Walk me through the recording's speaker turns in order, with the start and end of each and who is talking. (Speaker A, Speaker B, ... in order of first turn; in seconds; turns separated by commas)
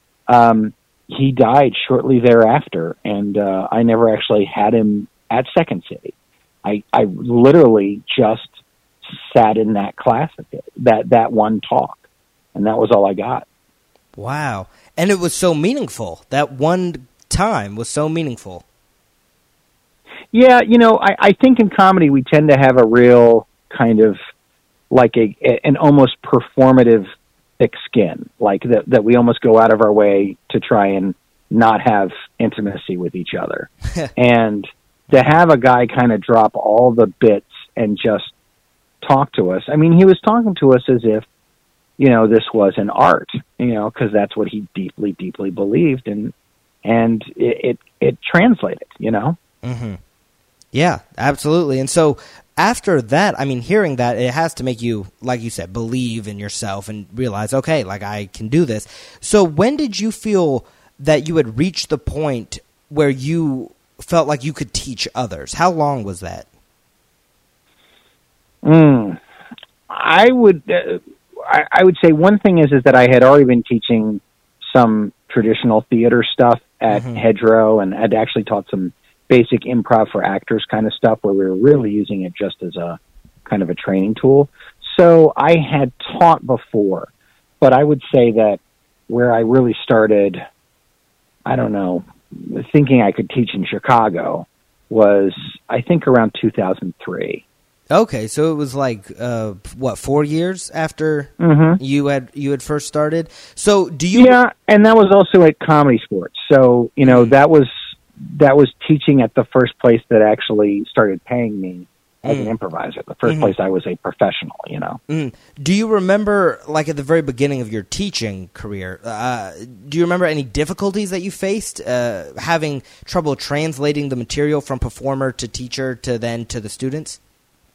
Speaker A: 0.3-6.1, Speaker A: 6.6-8.5, Speaker A: 9.0-12.0, Speaker A: 12.5-13.4, Speaker B: 14.2-18.6, Speaker A: 20.3-24.2, Speaker A: 24.9-27.1, Speaker A: 27.6-38.3, Speaker A: 39.0-41.2, Speaker A: 42.0-46.3, Speaker A: 46.8-49.4, Speaker B: 49.6-50.0, Speaker B: 50.7-66.5, Speaker A: 68.6-69.2, Speaker A: 69.9-87.1, Speaker B: 76.9-77.2, Speaker A: 87.6-90.4, Speaker A: 91.5-97.4, Speaker B: 97.9-104.3, Speaker A: 101.4-101.8, Speaker A: 104.1-115.0, Speaker B: 107.0-107.3, Speaker B: 112.2-112.5, Speaker B: 113.2-113.5, Speaker B: 115.1-127.2